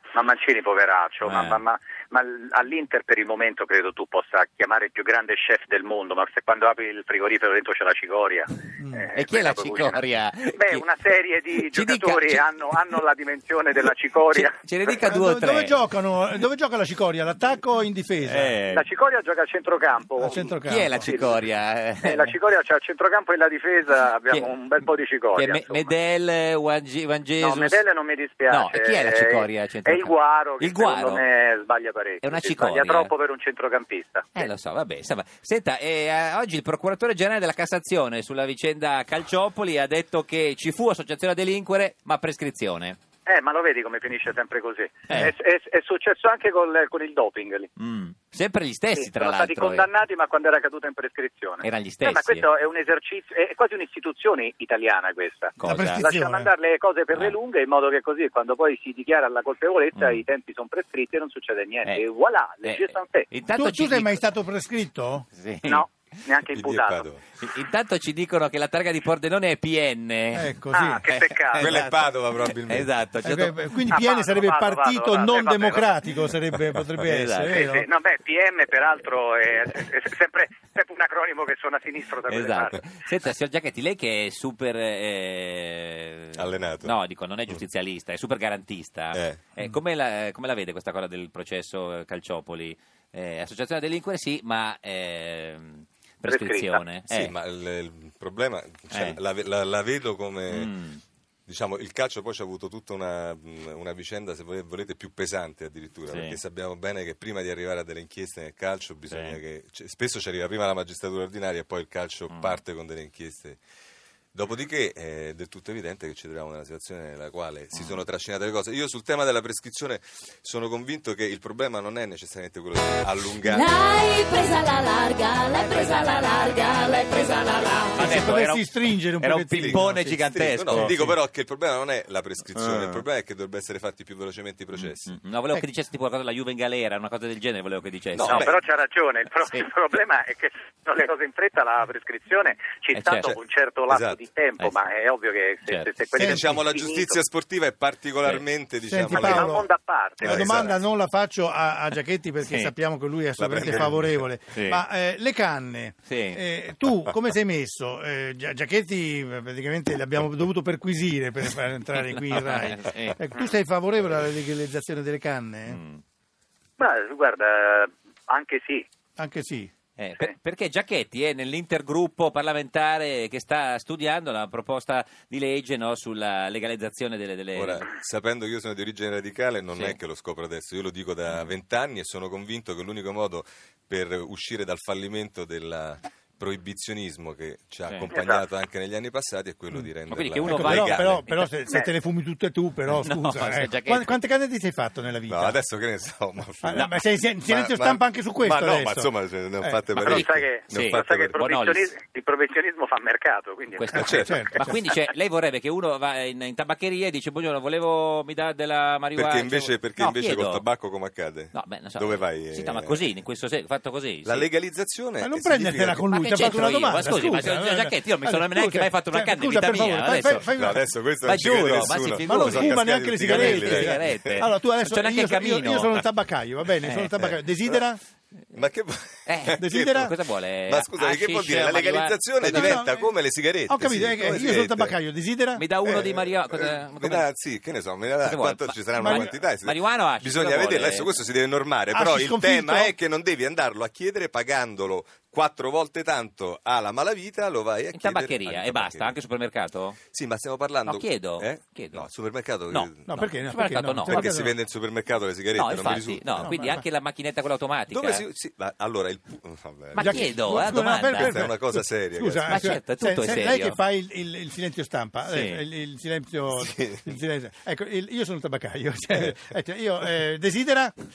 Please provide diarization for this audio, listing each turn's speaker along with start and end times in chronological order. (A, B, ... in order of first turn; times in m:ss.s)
0:00.1-0:14.5 A
0:01.2-0:01.6 B
0:08.8-0:09.0 C
0:09.1-0:10.8 B
0:11.6-0:13.0 B
0:14.3-0:15.8 B
0:15.1-0:18.6 C
0:18.2-0:18.8 B
0:18.7-0:21.4 A
0:20.2-0:21.1 C
0:20.6-0:22.3 B
0:22.0-0:25.9 A
0:24.3-0:27.8 B
0:27.4-0:34.5 A
0:28.5-0:31.2 B
0:32.2-0:33.1 B
0:34.3-0:43.0 B
0:43.2-0:47.7 A
0:47.8-0:49.9 B
0:48.9-1:03.3 A
0:51.6-0:52.5 B
0:55.6-0:56.0 B
0:55.6-0:56.5 C
0:59.9-1:00.2 B
1:02.6-1:04.3 B
1:03.5-1:05.3 C
1:05.3-1:05.8 B
1:05.6-1:07.1 A
1:06.5-1:07.2 D
1:07.3-1:10.5 B
1:10.3-1:11.0 C
1:10.7-1:11.7 A
1:11.1-1:13.7 B
1:11.6-1:12.9 D
1:13.2-1:17.8 C
1:13.9-1:15.8 A
1:16.7-1:17.6 B
1:17.4-1:22.8 A
1:22.3-1:37.3 B
1:26.3-1:26.9 D
1:29.1-1:29.4 D
1:36.2-1:36.8 A
1:37.1-1:40.8 D
1:38.9-1:39.2 B
1:40.5-1:41.0 B
1:41.5-1:53.6 D
1:46.1-1:46.4 B
1:49.0-1:49.4 B
1:52.3-1:52.6 B
1:54.3-2:03.7 D
1:57.7-1:58.0 B
2:03.4-2:08.0 E
2:05.2-2:11.1 B
2:08.0-2:10.9 C
2:09.6-2:15.1 D
2:12.5-2:13.0 B
2:14.7-2:18.5 B
2:18.1-2:18.5 D
2:18.2-2:27.2 A
2:22.9-2:23.3 B
2:23.2-2:24.2 D
2:26.2-2:26.6 C
2:26.3-2:29.5 D
2:28.9-2:29.7 C
2:29.1-2:30.8 A
2:30.2-2:45.8 C
2:30.2-2:30.8 D
2:32.4-2:32.7 B
2:33.4-2:34.2 D
2:34.5-2:34.8 B
2:36.0-2:36.4 B
2:42.0-2:43.2 B
2:45.7-2:46.0 B
2:46.8-2:48.8 A
2:49.2-2:49.7 C
2:50.0-2:57.9 B
2:57.5-3:11.2 D
3:01.3-3:01.5 B
3:07.9-3:08.1 B
3:08.1-3:08.4 A
3:10.1-3:11.5 B
3:10.4-3:15.6 C
3:12.9-3:14.2 B
3:15.3-3:21.3 D
3:16.6-3:19.8 C
3:16.7-3:17.0 B
3:20.0-3:24.6 A
3:20.0-3:21.9 B
3:23.8-3:30.7 B
3:23.9-3:24.7 C
3:23.9-3:24.4 D
3:29.1-3:33.0 D
3:31.5-3:34.5 B
3:34.2-3:36.0 D
3:35.2-3:40.8 C
3:36.1-3:40.5 B
3:40.6-3:44.4 D
3:41.2-3:46.1 B
3:42.2-3:48.0 C
3:46.8-3:47.4 B
3:48.5-3:50.1 D
3:49.3-3:52.8 B
3:49.6-3:50.1 C
3:50.7-3:55.0 D
3:52.4-3:55.6 C
3:55.6-3:57.5 B
3:55.8-4:09.2 D
3:58.2-4:01.2 B
3:59.0-3:59.3 C
4:01.9-4:02.9 C
4:07.9-4:10.0 B
4:10.1-4:13.1 D
4:10.8-4:12.1 B
4:12.7-4:14.4 B
4:13.0-4:14.6 C
4:14.1-4:16.5 D
4:15.5-4:18.2 B
4:16.4-4:16.8 C
4:17.9-4:22.8 D
4:19.9-4:21.4 B
4:19.9-4:30.9 C
4:22.5-4:23.8 B
4:25.3-4:25.6 B
4:26.6-4:27.1 D